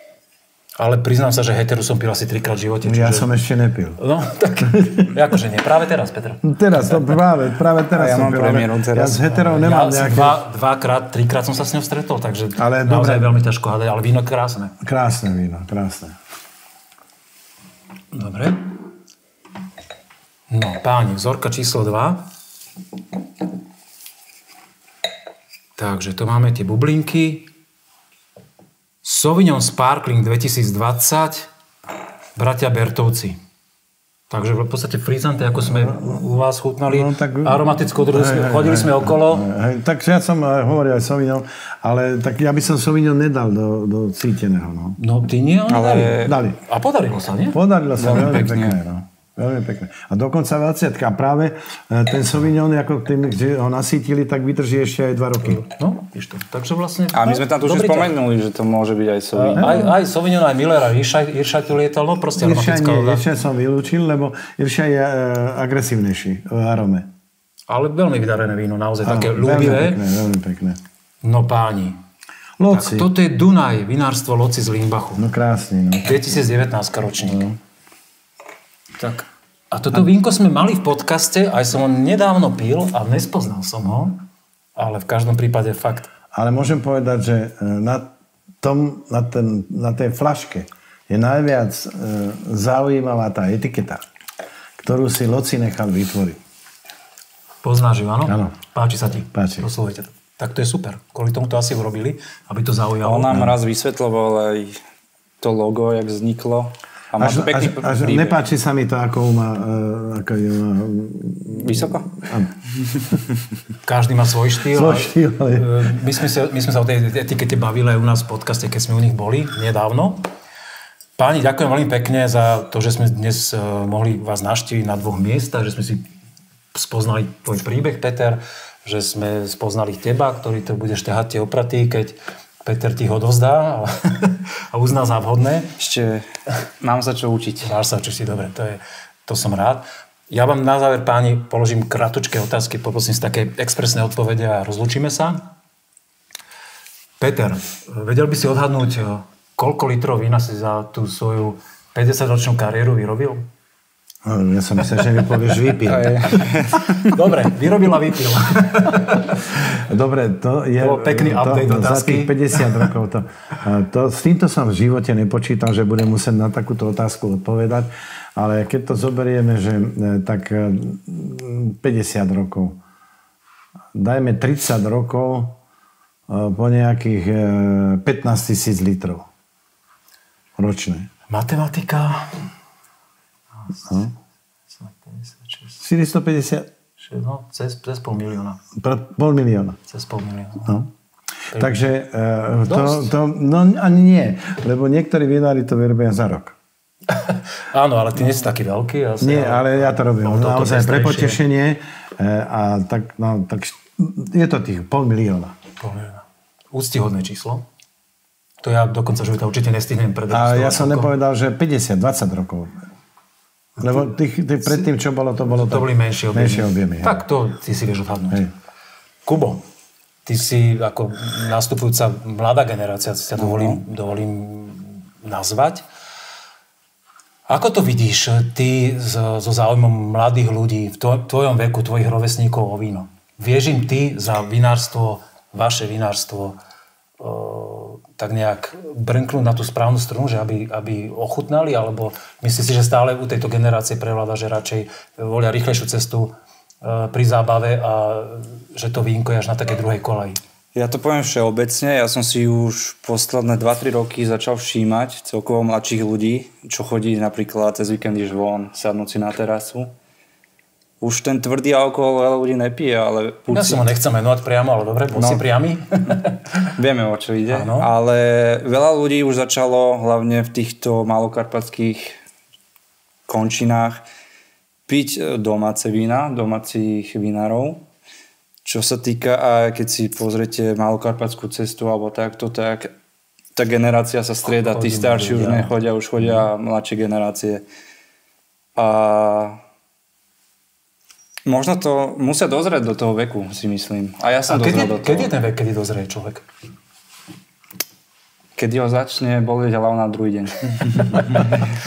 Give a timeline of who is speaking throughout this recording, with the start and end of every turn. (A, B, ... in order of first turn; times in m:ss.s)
0:00.8-0:03.3 A
0:02.8-0:04.0 B
0:04.0-0:07.2 A
0:04.6-0:05.1 B
0:06.4-0:10.4 B
0:07.9-0:09.3 C
0:09.2-0:14.8 A
0:12.6-0:13.4 B
0:14.8-0:16.2 B
0:18.1-0:18.8 A
0:20.5-0:22.2 A
0:25.8-0:27.5 A
0:29.0-0:31.5 A
0:32.4-0:33.4 A
0:34.3-0:39.5 A
0:35.8-0:36.2 B
0:36.9-0:45.0 B
0:45.0-0:47.6 A
0:45.7-0:46.4 C
0:46.2-0:46.6 B
0:47.5-0:55.6 B
0:48.0-0:48.8 C
0:55.4-0:58.2 A
0:57.1-0:59.9 C
0:59.3-1:03.2 A
0:59.6-0:59.8 B
1:02.4-1:07.1 B
1:07.7-1:10.0 A
1:09.0-1:10.8 B
1:11.2-1:12.0 A
1:12.6-1:13.1 B
1:12.7-1:15.3 A
1:15.2-1:16.4 B
1:16.0-1:17.5 A
1:17.3-1:17.6 B
1:19.0-1:26.1 A
1:26.3-1:34.0 B
1:34.8-1:36.4 B
1:37.6-1:43.4 A
1:38.3-1:38.5 B
1:39.3-1:39.7 B
1:43.0-1:44.8 C
1:43.3-1:43.5 B
1:45.4-1:48.4 C
1:47.2-1:52.5 B
1:51.5-1:52.2 C
1:52.9-1:53.2 C
1:53.8-2:00.3 A
1:54.7-1:55.9 B
2:01.2-2:06.1 A
2:06.7-2:15.8 A
2:15.8-2:16.3 C
2:16.8-2:17.7 C
2:17.6-2:25.5 A
2:27.2-2:33.5 A
2:34.2-2:36.5 B
2:35.9-2:37.2 C
2:36.8-2:39.6 A
2:39.6-2:52.8 B
2:40.8-2:42.9 A
2:53.9-2:55.6 B
2:56.3-2:59.3 B
3:00.6-3:01.1 B
3:01.3-3:02.5 A
3:03.9-3:04.1 B
3:04.7-3:05.8 A
3:05.8-3:06.7 B
3:07.0-3:08.6 A
3:08.8-3:09.8 B
3:09.9-3:10.8 A
3:11.5-3:11.9 A
3:11.6-3:16.6 B
3:12.6-3:13.1 A
3:17.1-3:21.4 A
3:19.2-3:25.6 B
3:25.8-3:27.7 A
3:28.6-3:31.1 A
3:30.3-3:32.8 B
3:33.8-3:37.2 B
3:35.5-3:38.5 A
3:39.3-3:39.6 A
3:40.2-3:45.8 A
3:43.4-3:43.8 C
3:47.5-3:56.6 A
3:57.2-4:10.4 A
4:10.7-4:19.9 C
4:21.0-4:23.9 C
4:23.5-4:26.7 A
4:25.2-4:25.4 C
4:26.8-4:32.2 C
4:27.5-4:27.9 A
4:33.3-4:34.0 C
4:34.9-4:37.9 C
4:38.6-4:43.0 C
4:43.6-4:47.7 C
4:44.5-4:46.4 A
4:48.8-4:49.6 C
4:51.4-4:55.3 C
4:54.5-4:56.5 A
4:58.6-5:01.5 C
5:01.1-5:01.6 A